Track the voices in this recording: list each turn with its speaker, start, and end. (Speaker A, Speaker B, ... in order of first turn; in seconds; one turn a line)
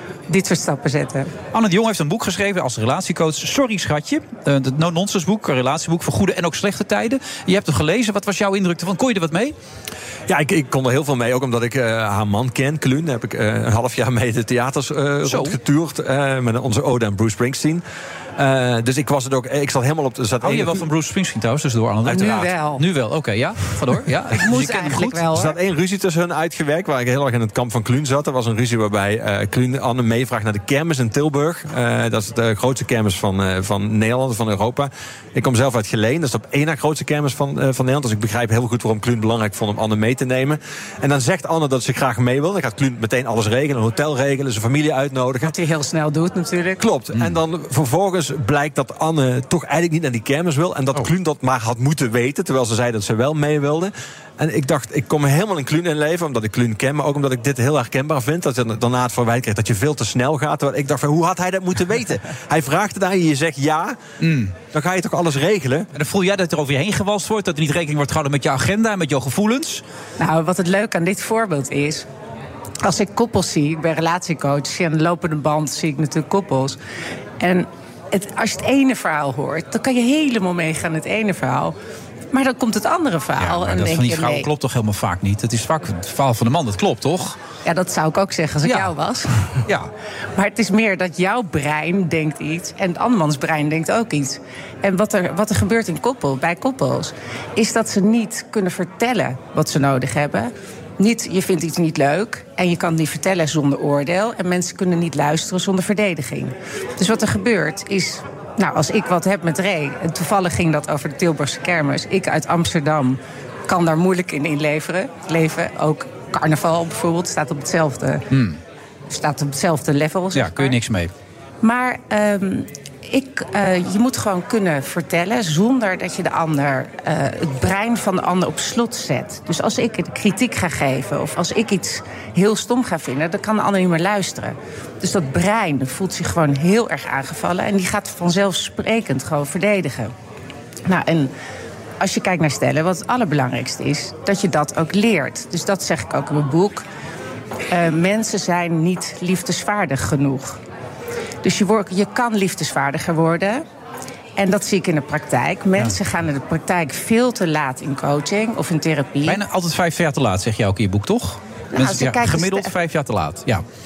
Speaker A: 0.3-1.3
Speaker B: 1.5-9.5
Speaker C: 10.3-17.8
Speaker B: 15.2-15.6
Speaker C: 18.4-20.9
Speaker B: 20.4-25.2
Speaker C: 22.1-22.5
Speaker A: 22.1-22.8
Speaker A: 24.3-25.5
Speaker C: 25.1-45.5
Speaker A: 45.4-46.8
Speaker C: 46.8-64.0
Speaker B: 64.2-64.5
Speaker C: 64.7-65.9
Speaker B: 65.9-69.8
Speaker A: 70.2-72.0
Speaker A: 72.8-76.8
Speaker A: 77.4-81.7
Speaker A: 82.3-84.5
Speaker B: 83.4-87.3
Speaker A: 87.6-89.3
Speaker B: 88.6-88.9
Speaker A: 90.4-118.2
Speaker B: 118.3-118.6
Speaker A: 119.1-120.8
Speaker B: 120.3-121.1
Speaker A: 121.6-140.1
Speaker A: 140.9-141.3
Speaker A: 142.0-146.8
Speaker A: 147.7-150.6
Speaker A: 151.4-153.6
Speaker A: 154.4-159.4
Speaker B: 159.2-163.6
Speaker A: 161.7-162.7